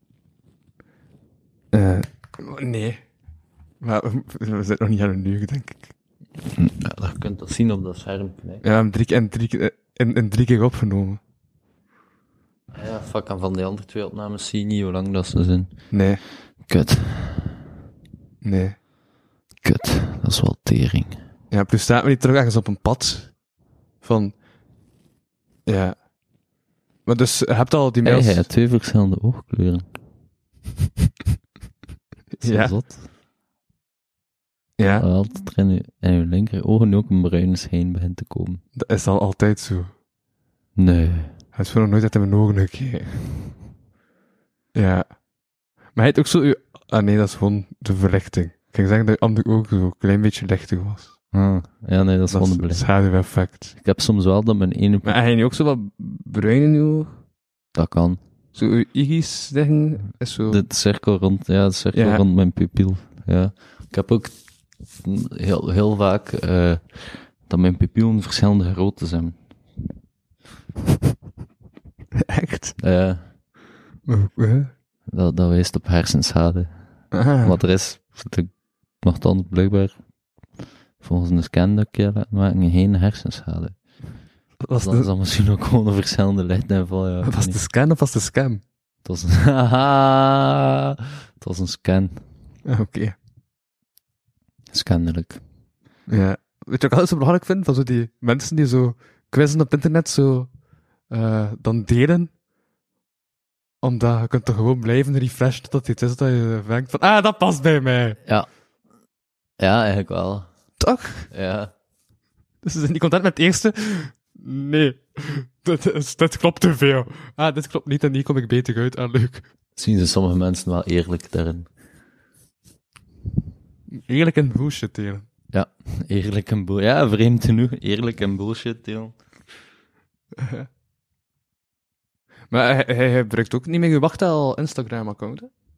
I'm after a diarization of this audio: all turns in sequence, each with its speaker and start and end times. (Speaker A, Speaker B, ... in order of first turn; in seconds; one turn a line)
Speaker A: 1.7-3.0
Speaker A: 3.8-5.9
Speaker B: 6.5-8.6
Speaker A: 8.6-11.2
Speaker B: 12.7-15.7
Speaker A: 15.9-16.2
Speaker B: 16.7-17.6
Speaker A: 18.4-18.8
Speaker B: 19.6-21.2
Speaker A: 21.5-23.3
Speaker A: 24.0-24.3
Speaker A: 25.7-26.0
Speaker A: 27.1-28.5
Speaker B: 28.0-29.9
Speaker B: 32.4-33.0
Speaker A: 32.4-32.7
Speaker A: 34.8-35.0
Speaker B: 35.0-38.6
Speaker A: 38.8-39.9
Speaker B: 40.8-41.4
Speaker A: 41.5-43.1
Speaker A: 44.8-45.1
Speaker A: 46.0-51.1
Speaker B: 51.3-52.9
Speaker A: 52.3-53.7
Speaker B: 53.8-55.2
Speaker A: 55.0-57.2
Speaker B: 57.8-58.2
Speaker A: 58.5-60.6
Speaker B: 60.5-64.3
Speaker A: 61.9-62.2
Speaker B: 65.0-69.4
Speaker A: 72.2-72.8
Speaker B: 72.8-73.2
Speaker A: 74.1-74.7
Speaker B: 75.1-76.7
Speaker A: 77.1-77.6
Speaker B: 77.4-79.9
Speaker B: 81.0-83.8
Speaker A: 84.6-85.1
Speaker B: 84.8-87.6
Speaker A: 87.2-88.6
Speaker B: 89.0-92.2
Speaker A: 92.7-93.2
Speaker B: 94.7-95.4
Speaker A: 96.1-100.5
Speaker A: 101.1-102.3
Speaker A: 103.8-108.2
Speaker B: 109.6-110.5
Speaker A: 110.8-111.3
Speaker B: 111.3-111.7
Speaker A: 112.6-119.5
Speaker B: 119.8-121.7
Speaker A: 124.1-125.3
Speaker B: 125.5-129.1
Speaker A: 130.4-130.7
Speaker A: 132.5-135.5